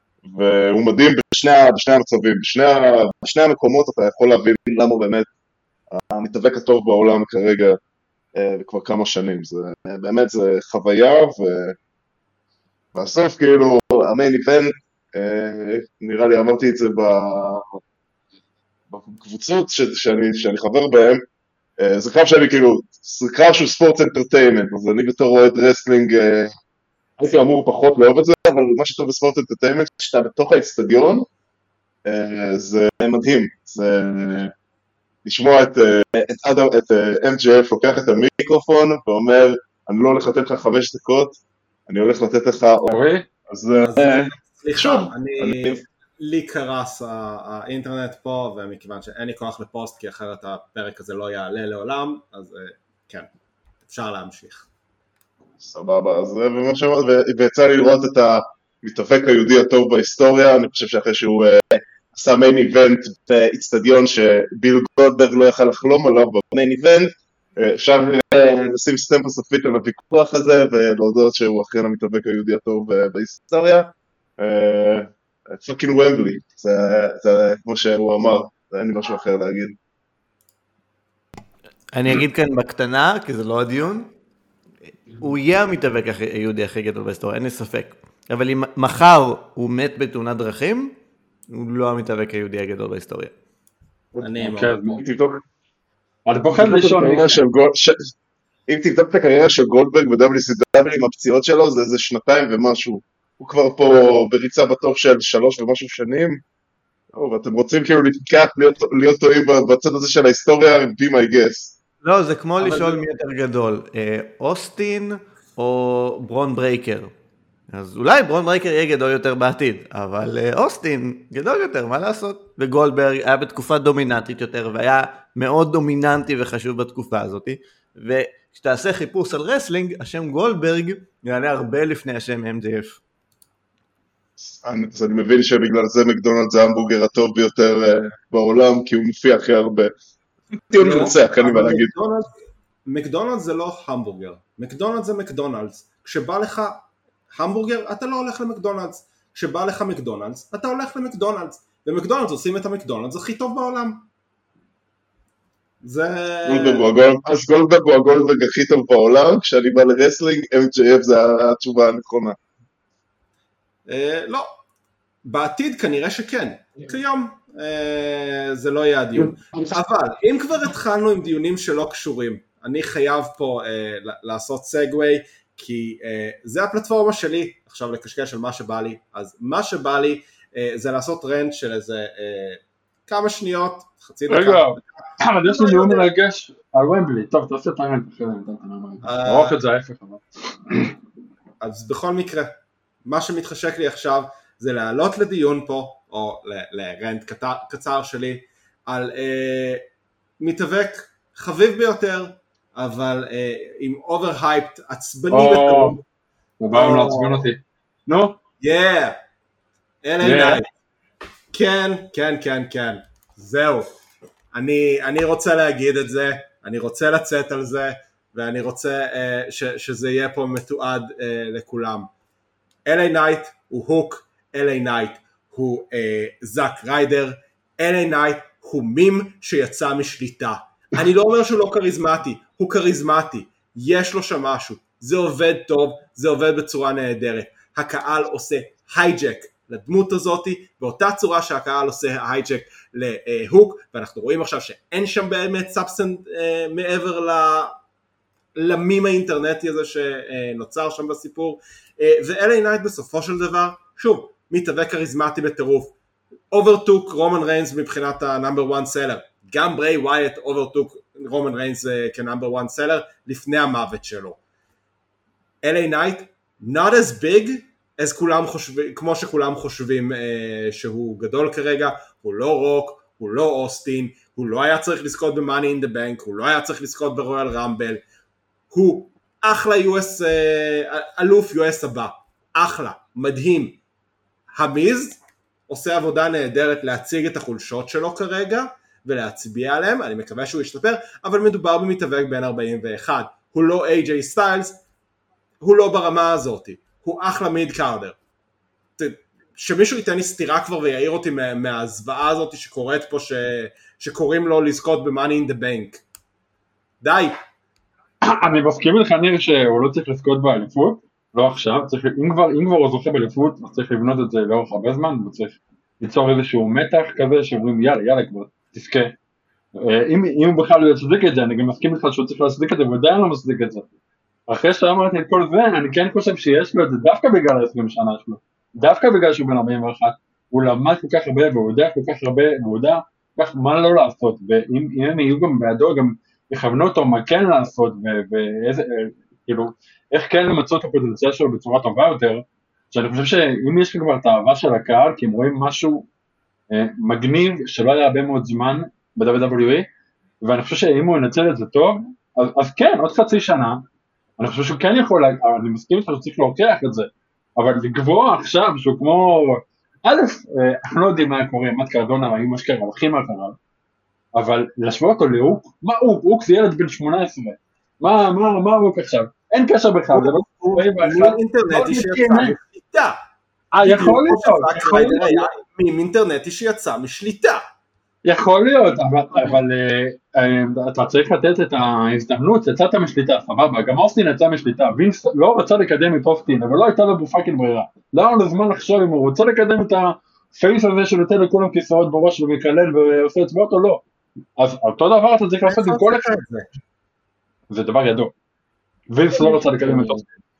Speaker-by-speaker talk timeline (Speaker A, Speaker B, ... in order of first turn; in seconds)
Speaker A: 0.2-5.3, 5.9-7.8, 8.3-11.8, 12.9-17.8, 18.9-21.2, 21.8-26.5, 27.2-31.2, 32.0-34.5, 35.2-45.8, 55.6-79.8, 94.9-95.4, 96.5-98.1, 98.7-106.4, 107.1-111.8, 134.4-139.9, 140.7-141.9, 156.4-162.3, 169.2-169.7, 399.4-400.2
Speaker B: 42.9-43.2, 94.4-95.0, 96.2-97.4, 184.3-190.9, 205.3-206.0, 206.6-208.4, 210.2-210.6, 308.2-319.1, 319.7-323.9, 324.5-346.1, 346.7-349.9, 350.4-353.8, 354.4-363.6, 364.3-372.5, 373.7-375.5, 378.2-394.0, 394.6-396.3, 397.7-398.3, 399.1-400.2
Speaker C: 43.8-53.3, 53.8-54.7, 94.2-94.8, 112.6-113.0, 140.8-142.3, 142.8-154.0, 155.8-156.8, 163.9-164.5, 165.2-186.1, 189.0-189.6, 191.6-192.5, 193.0-199.8, 200.4-206.0, 206.7-207.4, 208.6-209.2, 210.0-210.7, 211.5-213.9, 214.5-222.1, 222.8-247.7, 248.6-255.9, 256.5-264.4, 265.6-278.0, 278.7-283.8, 284.6-294.8, 295.6-298.1, 299.0-306.0, 307.0-307.3, 370.1-373.2, 373.8-377.6, 395.6-396.7
Speaker D: 81.9-84.1, 85.2-90.9, 91.5-93.3, 112.0-117.1, 117.7-133.0